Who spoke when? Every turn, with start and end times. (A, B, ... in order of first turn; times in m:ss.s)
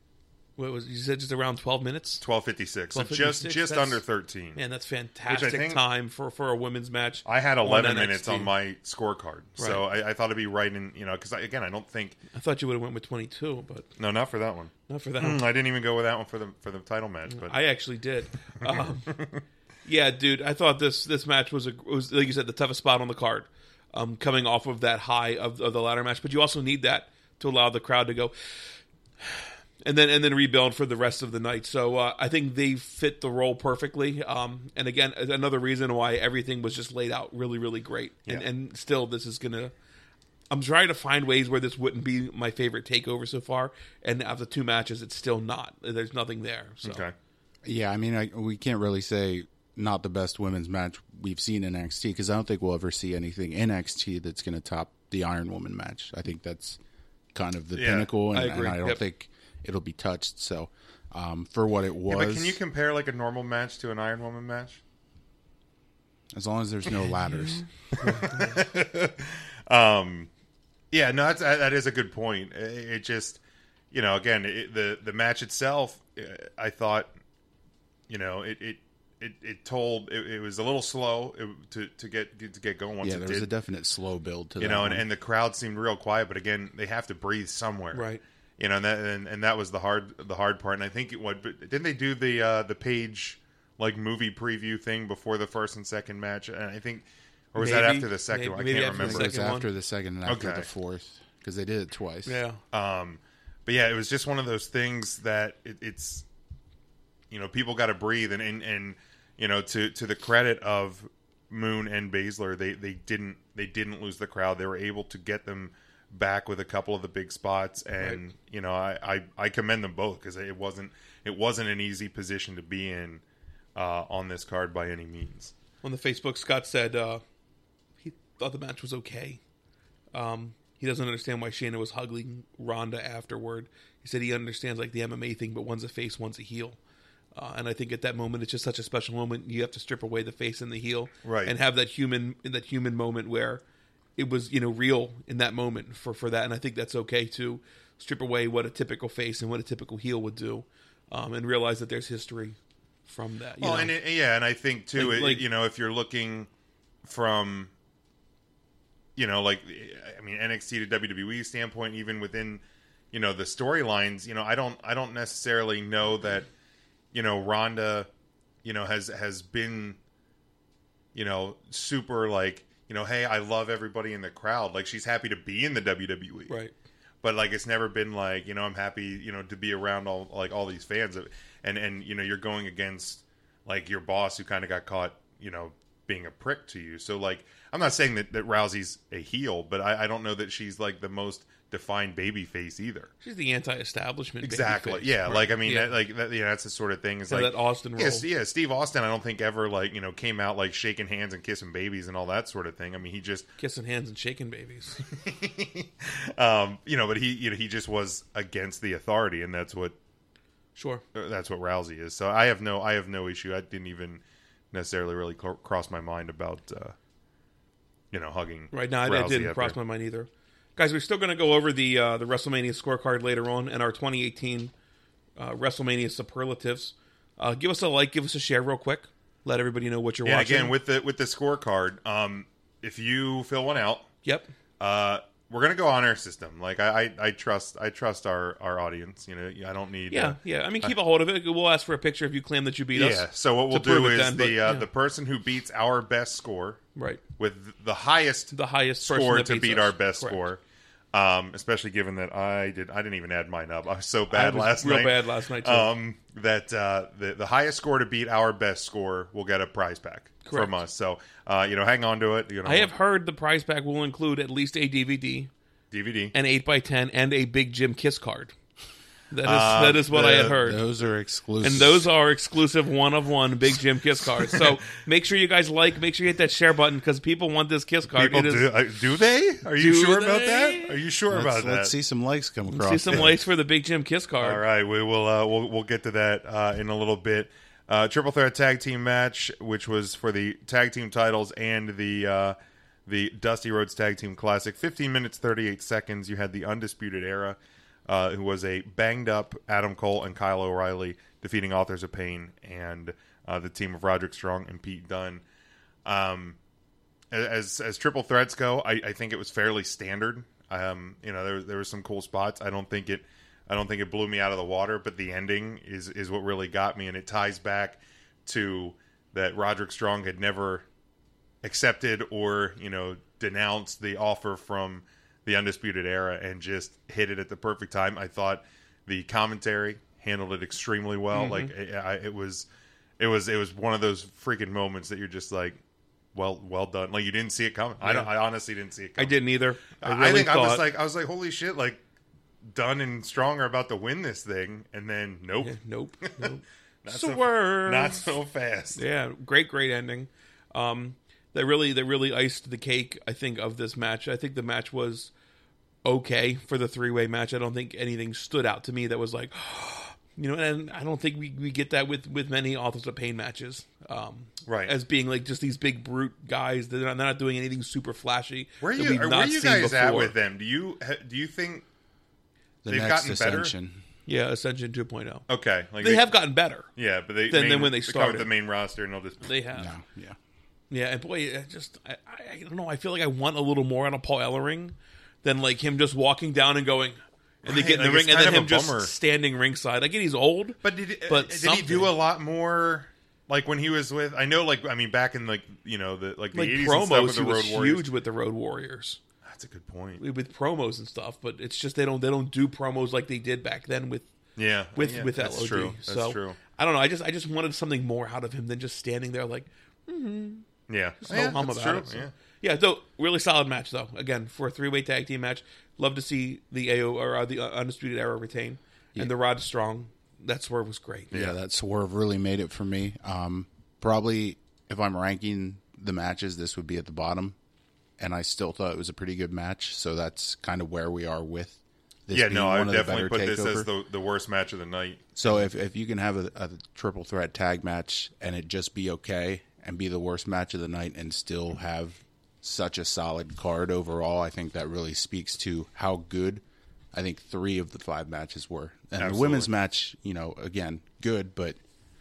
0:00.6-0:02.2 A
0:02.2-0:04.6 B
0:02.9-0:04.0 A
0:04.5-0:08.5 A
0:05.3-0:05.8 B
0:07.2-0:12.2 B
0:09.6-0:09.8 A
0:12.3-0:13.9 A
0:14.0-0:17.5 B
0:14.9-0:15.4 A
0:17.3-0:19.2 A
0:18.6-0:19.4 B
0:19.8-0:28.3 A
0:29.8-0:39.7 A
0:40.5-0:47.0 A
0:46.8-0:47.1 B
0:47.6-0:56.8 C
0:57.3-1:02.6 C
0:57.7-0:58.1 B
0:58.3-0:59.0 A
1:02.1-1:04.8 B
1:06.3-1:07.6 C
1:07.3-1:08.6 A
1:08.3-1:10.3 B
1:10.9-1:13.4 B
1:13.9-1:17.1 B
1:18.1-1:23.5 B
1:23.0-1:25.0 C
1:24.6-1:28.1 B
1:27.9-1:28.2 A
1:28.6-1:39.4 B
1:37.6-1:39.7 A
1:39.0-1:42.4 C
1:40.2-1:40.7 B
1:42.2-1:42.6 A
1:42.7-1:46.2 B
1:47.3-2:03.2 B
2:03.8-2:05.5 B
2:05.8-2:07.2 A
2:08.0-2:09.4 A
2:10.1-2:16.8 A
2:17.3-2:23.6 A
2:21.2-2:21.5 B
2:24.2-2:33.9 A
2:33.6-2:36.5 B
2:35.0-2:35.4 A
2:37.0-2:37.7 B
2:39.2-2:46.5 B
2:47.1-2:48.1 B
2:48.6-2:50.0 B
2:51.1-2:56.6 B
2:56.5-2:56.7 A
2:57.2-3:13.1 B
3:13.2-3:15.9 A
3:14.4-3:23.5 B
3:17.3-3:18.2 A
3:23.6-3:25.0 A
3:25.1-3:30.0 B
3:30.8-3:31.0 A
3:31.1-3:34.2 B
3:34.7-3:36.9 B
3:38.1-3:39.8 B
3:38.7-3:44.7 A
3:45.4-3:50.8 A
3:50.2-3:54.1 B
3:54.2-3:54.5 A
3:54.8-4:01.0 B
4:00.1-4:04.9 A
4:02.9-4:06.8 B
4:07.0-4:07.2 A
4:07.4-4:10.6 B
4:08.5-4:10.4 A
4:11.1-4:22.9 B
4:14.3-4:15.9 A
4:20.4-4:20.8 A
4:22.6-4:25.5 A
4:25.9-4:26.3 B
4:26.3-4:28.5 A
4:29.3-4:30.8 A
4:29.4-4:30.6 B
4:30.5-4:32.1 C
4:31.6-4:38.7 A
4:38.1-4:41.9 B
4:39.8-4:41.0 A
4:41.3-4:43.3 C
4:42.7-4:44.6 A
4:44.4-4:52.6 B
4:53.1-5:05.4 B
5:06.0-5:06.6 B
5:07.3-5:20.8 B
5:21.6-5:32.7 B
5:31.3-5:31.7 A
5:33.2-5:35.8 B
5:36.3-5:42.0 B
5:38.0-5:38.3 A
5:39.2-5:40.9 A
5:42.7-5:46.5 B
5:45.6-5:48.3 A
5:47.0-5:49.0 B
5:48.9-5:55.3 A
5:56.0-6:10.3 A
6:04.6-6:04.9 B
6:08.8-6:11.8 B
6:12.8-6:14.0 C
6:12.9-6:13.7 B
6:14.2-6:15.4 A
6:15.5-6:16.3 B
6:16.0-6:16.9 A
6:17.0-6:19.5 B
6:17.5-6:18.5 A
6:19.4-6:19.9 A
6:19.7-6:20.4 C
6:20.9-6:32.1 A
6:27.6-6:29.1 B
6:30.8-6:38.1 B
6:36.5-6:39.2 A
6:39.4-6:40.2 B
6:40.2-6:44.3 A
6:44.6-6:46.6 B
6:44.9-6:50.6 A
6:50.9-6:52.3 B
6:51.2-7:01.3 A
7:01.3-7:07.6 C
7:08.2-7:13.9 C
7:12.3-7:15.5 B
7:15.4-7:31.8 C
7:29.2-7:29.7 B